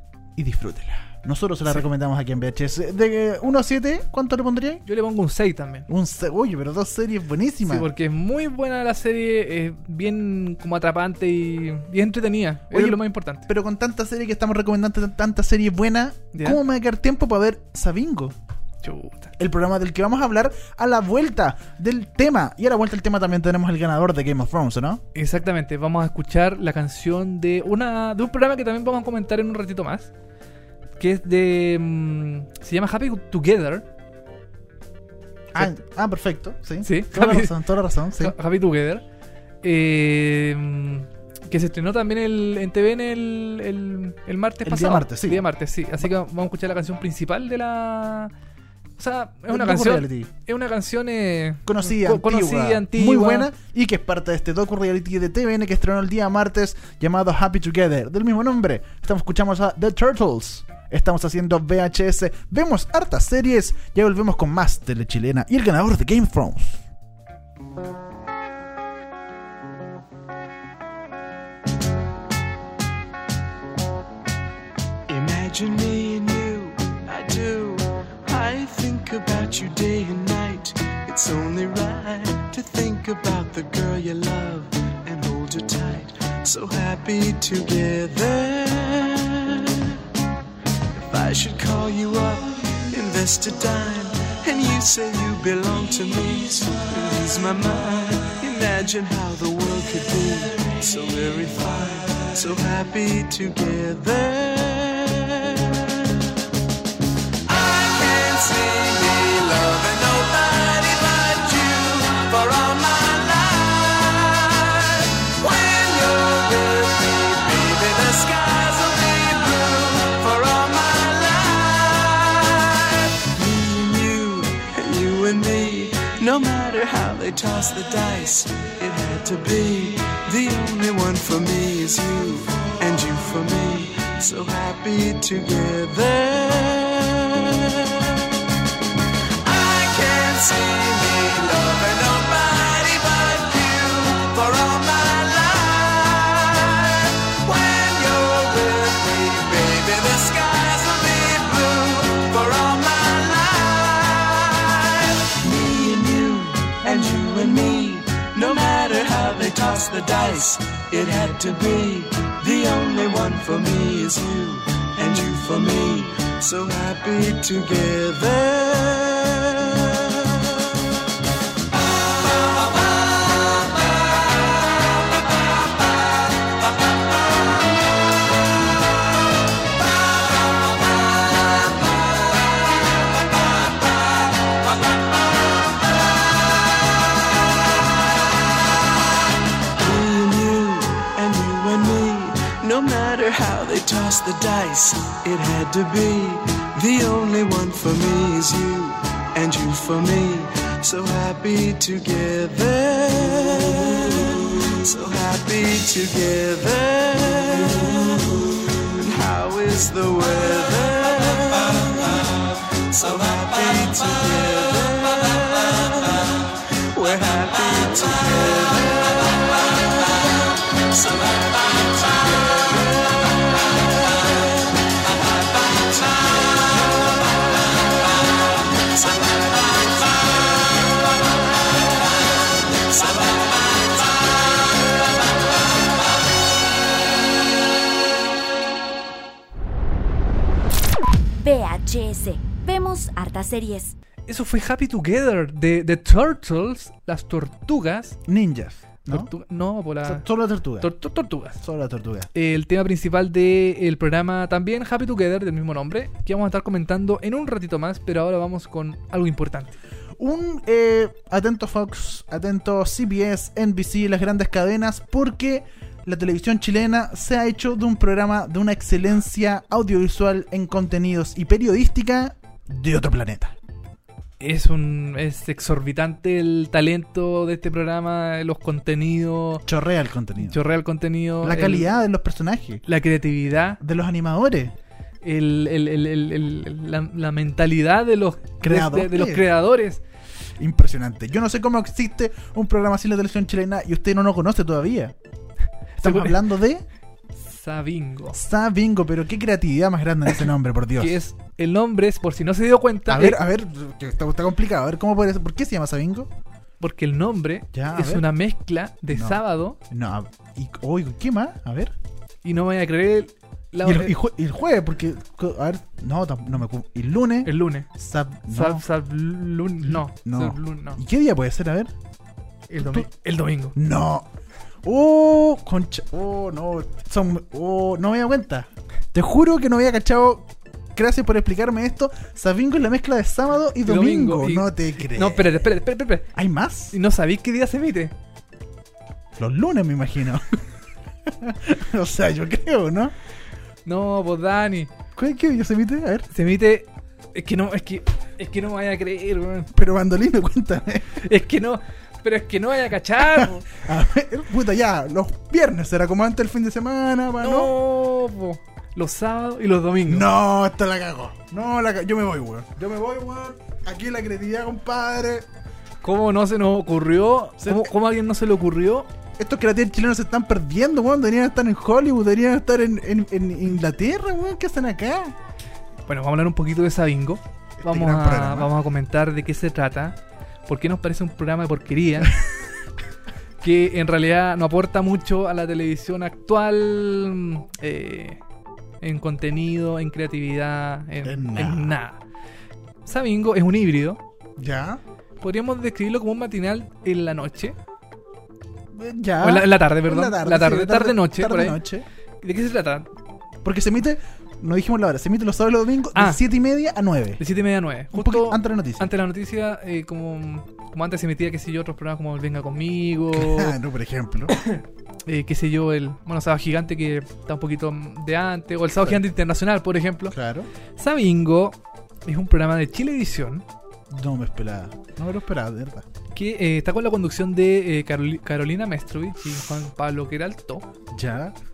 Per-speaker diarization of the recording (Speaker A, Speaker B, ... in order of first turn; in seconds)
Speaker A: 0.3-4.8, 5.9-7.9, 12.7-18.4, 19.4-25.0, 35.5-38.3, 44.6-45.5, 49.5-50.3, 51.6-66.8, 248.3-249.3, 250.0-250.9, 251.6-252.3, 260.2-273.5, 279.6-280.6, 281.4-282.8, 283.8-284.7, 288.6-289.4, 290.6-295.1, 296.0-296.8, 298.3-301.2, 303.1-306.3, 307.7-308.3, 309.1-311.9, 313.8-318.8, 319.8-321.9, 322.8-323.1, 323.7-324.3, 324.8-335.7, 336.3-336.9, 339.3-340.6, 341.2-343.1, 345.1-346.3, 349.7-351.2, 353.3-357.7, 360.1-365.5, 367.6-367.9, 369.4-375.3, 377.8-378.7, 391.2-391.9, 394.6-395.0, 398.9-402.1, 403.6-407.4, 408.1-409.1, 413.3-414.5, 420.3-420.7, 424.1-426.0, 431.1-431.6
Speaker B: 4.8-5.9, 7.6-13.5, 16.3-16.6, 18.8-19.3, 25.1-30.1, 31.0-33.9, 36.8-37.6, 38.2-39.0, 39.6-48.3, 49.0-53.5, 244.3-248.2, 249.1-250.2, 250.8-251.6, 252.3-259.8, 274.4-279.6, 280.4-281.9, 282.9-283.8, 285.2-290.0, 296.0-296.4, 297.4-298.4, 301.0-303.4, 306.8-309.8, 312.4-314.1, 317.4-317.9, 318.5-321.0, 322.7-323.8, 333.8-336.3, 336.9-338.1, 343.9-344.9, 346.3-349.7, 351.2-353.7, 357.4-360.3, 366.0-369.1, 376.1-382.4, 383.6-388.4, 389.0-392.2, 393.0-394.2, 395.4-397.8, 399.4-401.8, 402.4-403.1, 406.1-406.4, 407.4-413.8, 414.5-420.3, 421.0-423.6, 426.3-430.8
Speaker C: 75.1-89.9, 90.9-106.1, 107.5-138.3, 139.4-170.7, 172.3-173.7, 189.8-227.1, 228.8-230.8, 232.9-233.8
Speaker D: 241.4-243.9